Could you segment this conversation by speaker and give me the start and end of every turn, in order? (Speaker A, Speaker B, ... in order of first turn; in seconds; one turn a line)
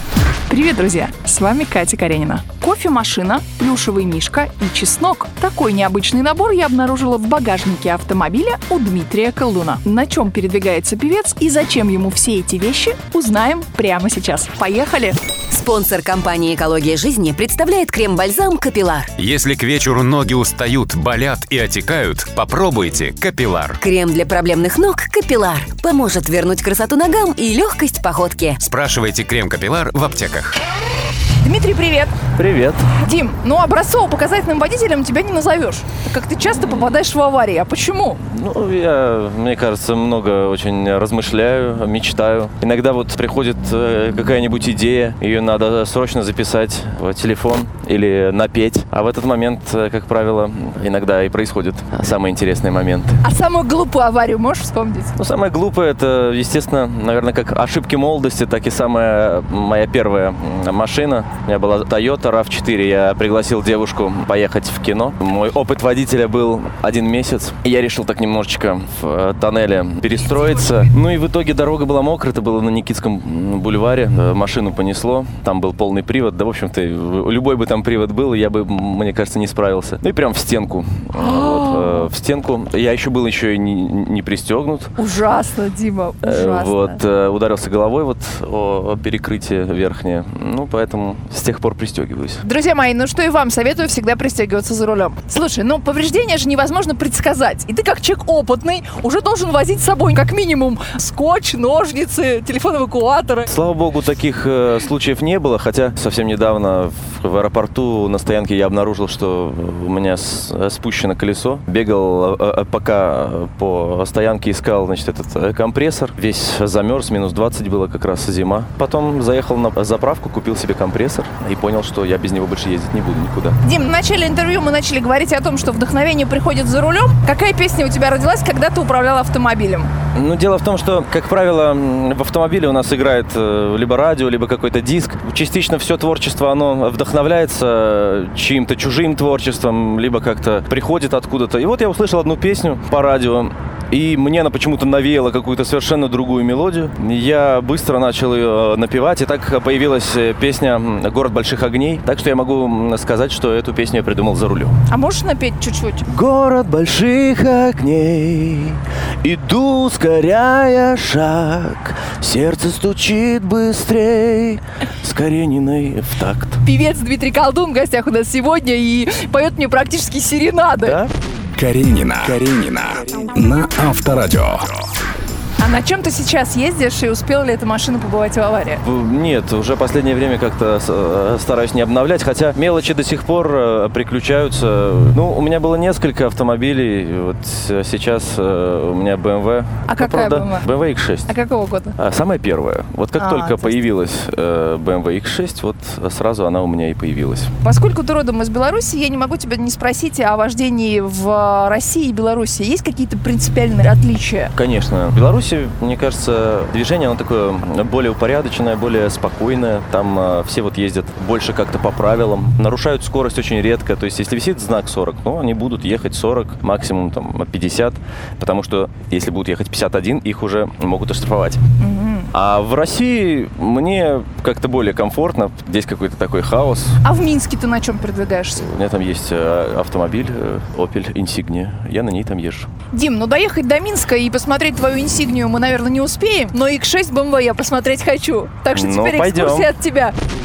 Speaker A: 0.5-15.2
Speaker B: 15.5-19.1
Speaker C: 19.2-23.8
Speaker B: 23.8-28.6
Speaker C: 28.6-30.6
Speaker A: 31.4-32.1
Speaker D: 32.4-32.9
Speaker A: 33.0-38.2
Speaker D: 36.5-36.9
Speaker D: 38.2-53.2
Speaker A: 53.2-55.1
Speaker D: 55.2-84.9
Speaker A: 81.1-82.1
Speaker A: 85.0-87.0
Speaker D: 86.2-92.4
Speaker A: 92.4-103.5
Speaker D: 103.5-123.6
Speaker A: 123.6-129.9
Speaker D: 130.2-154.8
Speaker A: 154.9-156.1
Speaker D: 156.1-166.6
Speaker A: 166.6-171.0
Speaker D: 170.8-171.1
Speaker E: 171.5-174.7
Speaker A: 175.6-178.8
Speaker D: 178.8-191.3
Speaker A: 189.9-190.7
Speaker A: 191.3-191.9
Speaker D: 192.0-197.5
Speaker A: 193.2-193.8
Speaker A: 197.6-204.5
Speaker D: 204.6-221.6
Speaker A: 221.8-222.3
Speaker D: 222.3-227.0
Speaker A: 227.0-228.7
Speaker D: 228.7-232.7
Speaker A: 232.9-240.1
Speaker D: 238.7-239.7